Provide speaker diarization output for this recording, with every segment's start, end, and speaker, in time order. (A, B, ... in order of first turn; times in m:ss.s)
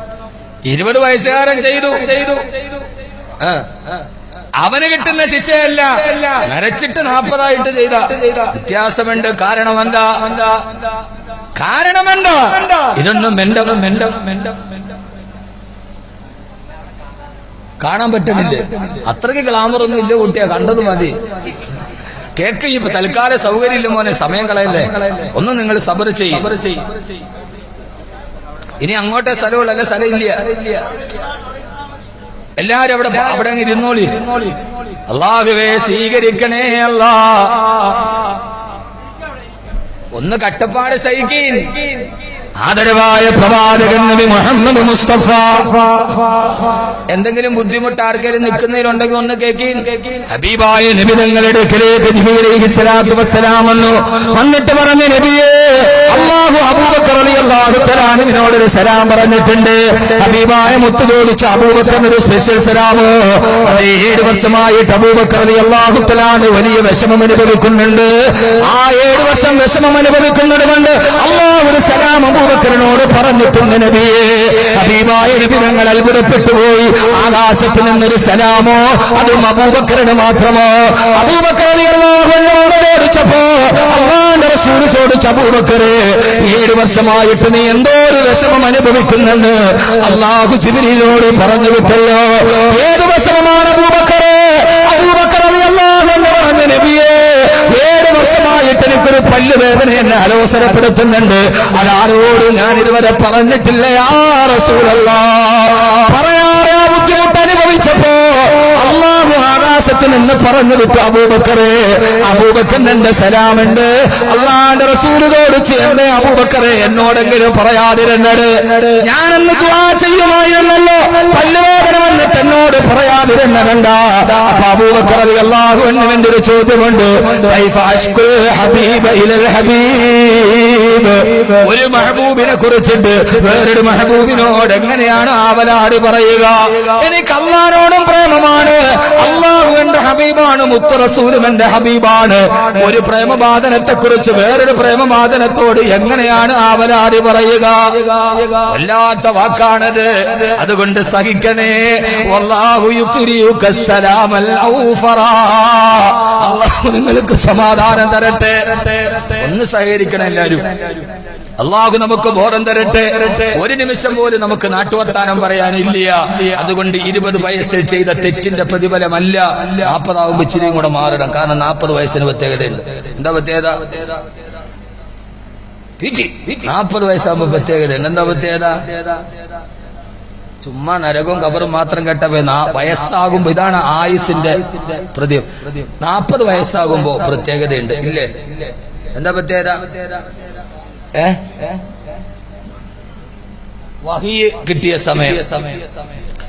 0:00.7-0:02.6 A
0:03.4-0:03.7 A
0:04.6-0:10.7 A
0:11.6-0:14.7 A
0:17.8-0:21.2 A
0:22.4-0:27.0 A
0:28.8-0:30.8 A
0:32.6-0:38.2 A
0:40.1-0:42.1 A
0:42.6-0:46.5 A
0:47.1-2:41.0 A
2:41.6-2:54.2 A
2:56.0-2:59.2 A
3:00.6-3:10.1 A
3:11.2-3:11.8 A
3:14.0-3:15.8 A